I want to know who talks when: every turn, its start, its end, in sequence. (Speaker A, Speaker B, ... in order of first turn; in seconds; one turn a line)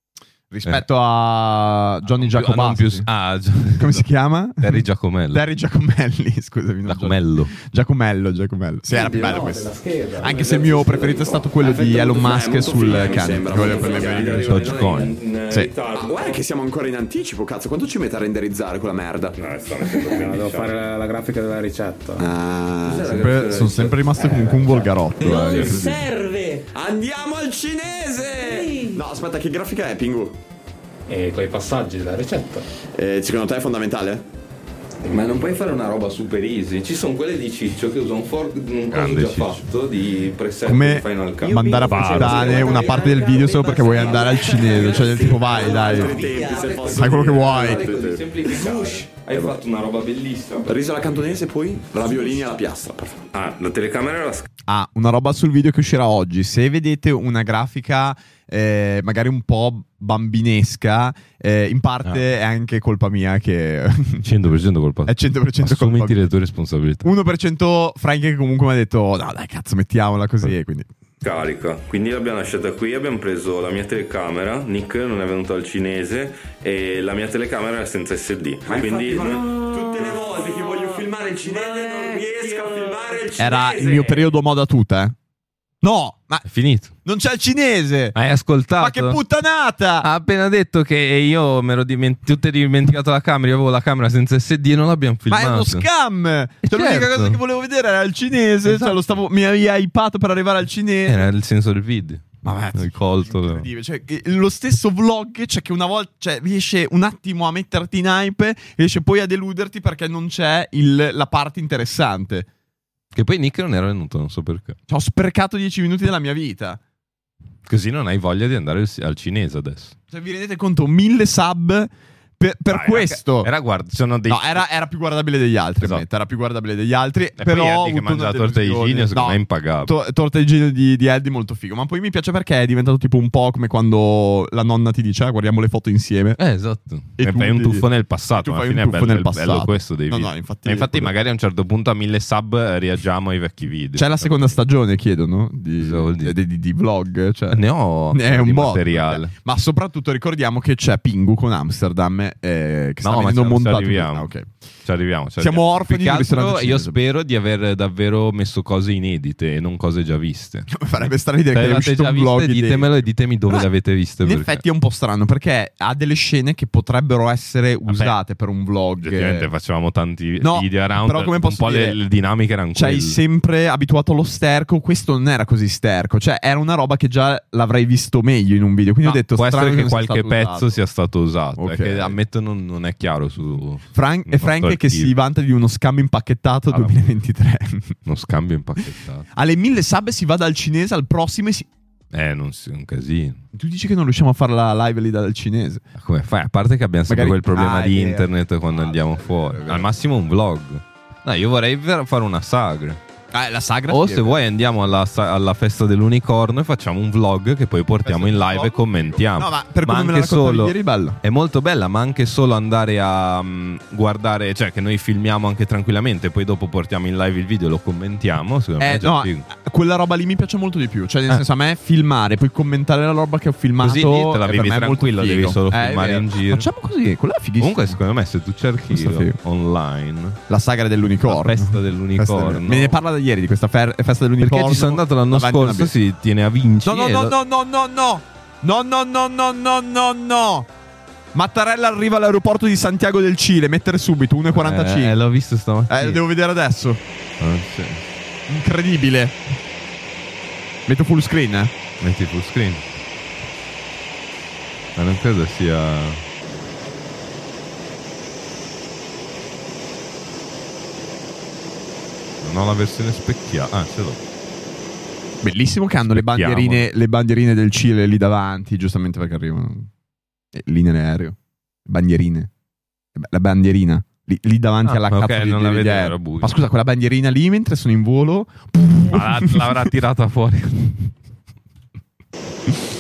Speaker A: 0.5-3.1
Speaker B: 2.1-4.1
Speaker A: 3.8-14.4
Speaker B: 4.6-5.5
Speaker B: 6.9-7.5
Speaker C: 9.0-10.6
Speaker D: 11.3-14.6
Speaker E: 12.7-16.4
Speaker B: 14.4-15.2
Speaker D: 15.9-19.4
Speaker E: 19.4-20.8
Speaker C: 20.0-22.3
Speaker D: 22.2-23.2
Speaker E: 22.8-25.8
Speaker A: 23.1-26.0
Speaker F: 24.2-24.6
Speaker F: 25.2-26.7
Speaker D: 26.7-30.4
Speaker F: 28.4-29.1
Speaker C: 31.1-32.7
Speaker D: 33.0-34.3
Speaker C: 35.0-35.5
Speaker E: 35.1-43.1
Speaker B: 38.9-39.6
Speaker A: 40.6-46.2
Speaker F: 41.5-47.0
Speaker B: 41.9-42.3
Speaker E: 44.6-45.5
Speaker D: 45.0-49.6
Speaker E: 46.0-51.3
Speaker A: 46.9-47.8
Speaker D: 50.6-53.3
Speaker E: 53.3-54.5
Speaker A: 54.7-64.2
Speaker B: 64.2-67.1
Speaker A: 65.1-66.2
Speaker A: 67.0-70.9
Speaker E: 71.2-79.5
Speaker D: 78.6-84.2
Speaker F: 79.5-83.1
Speaker A: 83.4-85.2
Speaker A: 85.8-86.5
Speaker B: 86.5-86.9
Speaker A: 87.0-88.2
Speaker B: 88.2-89.2
Speaker A: 88.8-90.1
Speaker B: 90.0-95.9
Speaker A: 95.3-101.3
Speaker B: 96.6-97.4
Speaker B: 98.7-99.1
Speaker B: 101.1-103.7
Speaker A: 102.4-112.5
Speaker B: 113.1-114.8
Speaker A: 114.9-116.8
Speaker B: 117.7-120.0
Speaker A: 120.1-123.5
Speaker B: 122.7-124.6
Speaker A: 124.3-136.4
Speaker B: 127.4-129.9
Speaker B: 136.4-144.6
Speaker A: 137.2-141.1
Speaker A: 144.0-154.5
Speaker B: 145.8-146.4
Speaker B: 147.5-149.3
Speaker B: 153.0-154.3
Speaker B: 154.8-164.6
Speaker A: 155.4-157.0
Speaker A: 160.7-163.7
Speaker A: 164.2-169.5
Speaker B: 167.9-168.2
Speaker B: 169.0-173.2
Speaker A: 170.4-172.0
Speaker A: 172.7-180.7
Speaker B: 179.0-185.1
Speaker A: 181.6-182.2
Speaker A: 183.9-188.0
Speaker B: 186.7-187.1
Speaker B: 188.1-189.3
Speaker A: 189.3-191.7
Speaker B: 192.1-193.4
Speaker A: 193.5-195.8
Speaker B: 195.9-203.0
Speaker A: 197.1-199.9
Speaker A: 203.3-204.4
Speaker B: 203.9-219.5
Speaker A: 208.0-211.2
Speaker A: 218.8-228.0
Speaker B: 223.8-226.7
Speaker B: 227.6-230.4
Speaker A: 228.9-229.4
Speaker A: 230.5-235.9
Speaker B: 231.2-233.0
Speaker B: 234.4-237.3
Speaker A: 236.8-240.7
Speaker A: 241.3-245.2
Speaker B: 244.5-246.2
Speaker A: 245.9-247.0
Speaker B: 247.4-248.0
Speaker A: 248.5-249.4
Speaker A: 250.9-251.7
Speaker B: 252.0-252.9
Speaker B: 255.0-256.2
Speaker B: 262.4-264.2
Speaker A: 265.4-269.9
Speaker B: 266.1-266.9
Speaker A: 270.5-272.5
Speaker A: 273.2-279.9
Speaker B: 274.8-276.6
Speaker B: 279.1-281.1